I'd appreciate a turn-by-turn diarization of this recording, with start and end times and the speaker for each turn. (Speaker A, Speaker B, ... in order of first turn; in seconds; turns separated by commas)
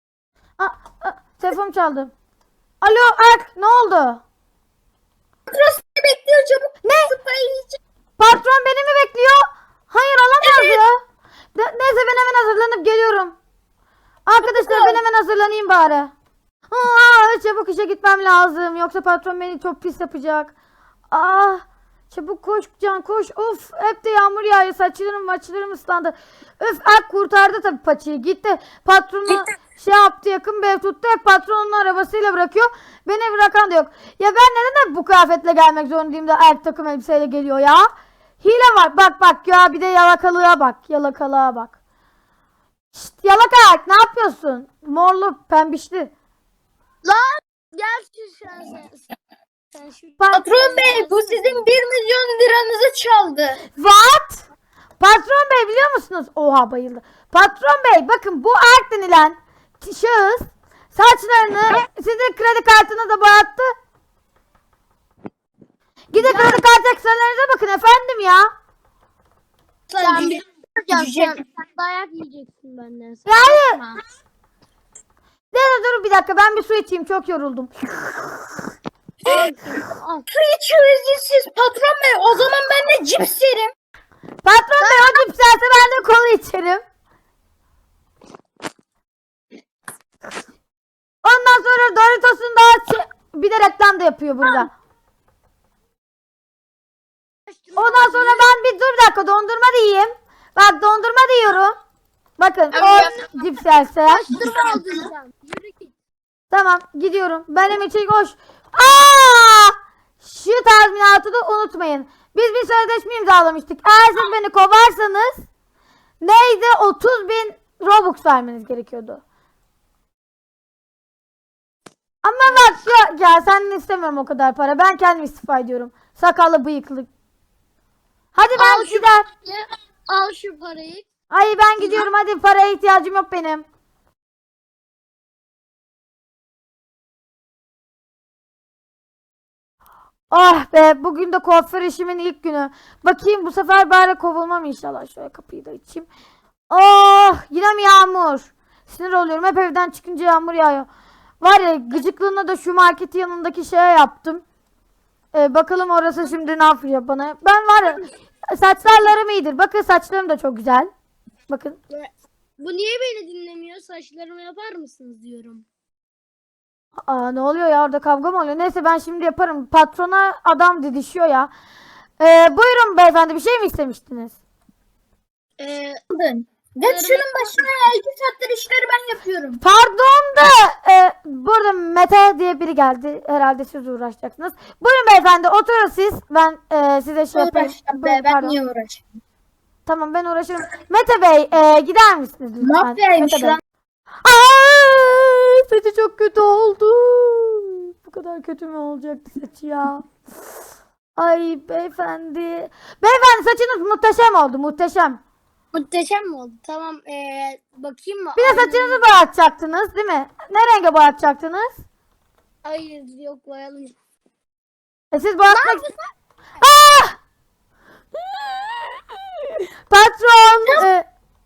Speaker A: 0.6-2.1, Speaker A: 2.8-4.2, Speaker B: 5.5-7.8, Speaker A: 6.8-7.1, Speaker A: 8.2-11.0, Speaker B: 10.4-10.8, Speaker A: 11.5-13.3, Speaker A: 14.2-16.1, Speaker B: 14.4-15.0, Speaker A: 16.7-20.5, Speaker A: 21.1-37.9, Speaker A: 38.4-41.7, Speaker A: 42.9-46.1, Speaker C: 47.0-49.1, Speaker C: 49.7-51.7, Speaker B: 50.3-53.6, Speaker A: 53.7-54.4, Speaker A: 55.0-63.7, Speaker A: 66.1-68.5, Speaker B: 69.9-71.3, Speaker C: 70.0-74.0, Speaker A: 73.2-73.8, Speaker A: 75.5-77.7, Speaker C: 79.2-80.2, Speaker B: 80.3-83.6, Speaker A: 84.4-86.8, Speaker A: 91.2-94.7, Speaker C: 97.5-98.5, Speaker A: 97.8-101.7, Speaker A: 102.4-104.2, Speaker C: 102.8-103.3, Speaker C: 104.1-105.9, Speaker A: 106.5-115.5, Speaker A: 116.2-119.2, Speaker A: 122.2-127.1, Speaker A: 128.3-129.2, Speaker C: 128.4-131.0, Speaker A: 131.3-133.6, Speaker C: 131.8-132.1, Speaker A: 140.3-146.1, Speaker A: 146.7-150.9, Speaker A: 151.4-154.4, Speaker A: 155.3-160.9, Speaker C: 158.8-159.1, Speaker A: 161.5-161.8, Speaker C: 161.9-165.6, Speaker A: 167.0-171.5, Speaker A: 172.2-174.3, Speaker C: 175.6-176.0, Speaker B: 176.1-179.6, Speaker C: 176.8-177.6, Speaker A: 179.6-188.6, Speaker B: 187.3-189.0, Speaker A: 189.8-193.6, Speaker B: 192.6-193.6, Speaker A: 194.2-200.1, Speaker A: 201.2-205.2, Speaker C: 205.7-209.1, Speaker A: 208.3-211.8, Speaker C: 212.6-213.9, Speaker A: 215.1-215.8, Speaker C: 215.4-216.0, Speaker A: 216.6-217.2, Speaker A: 219.9-221.1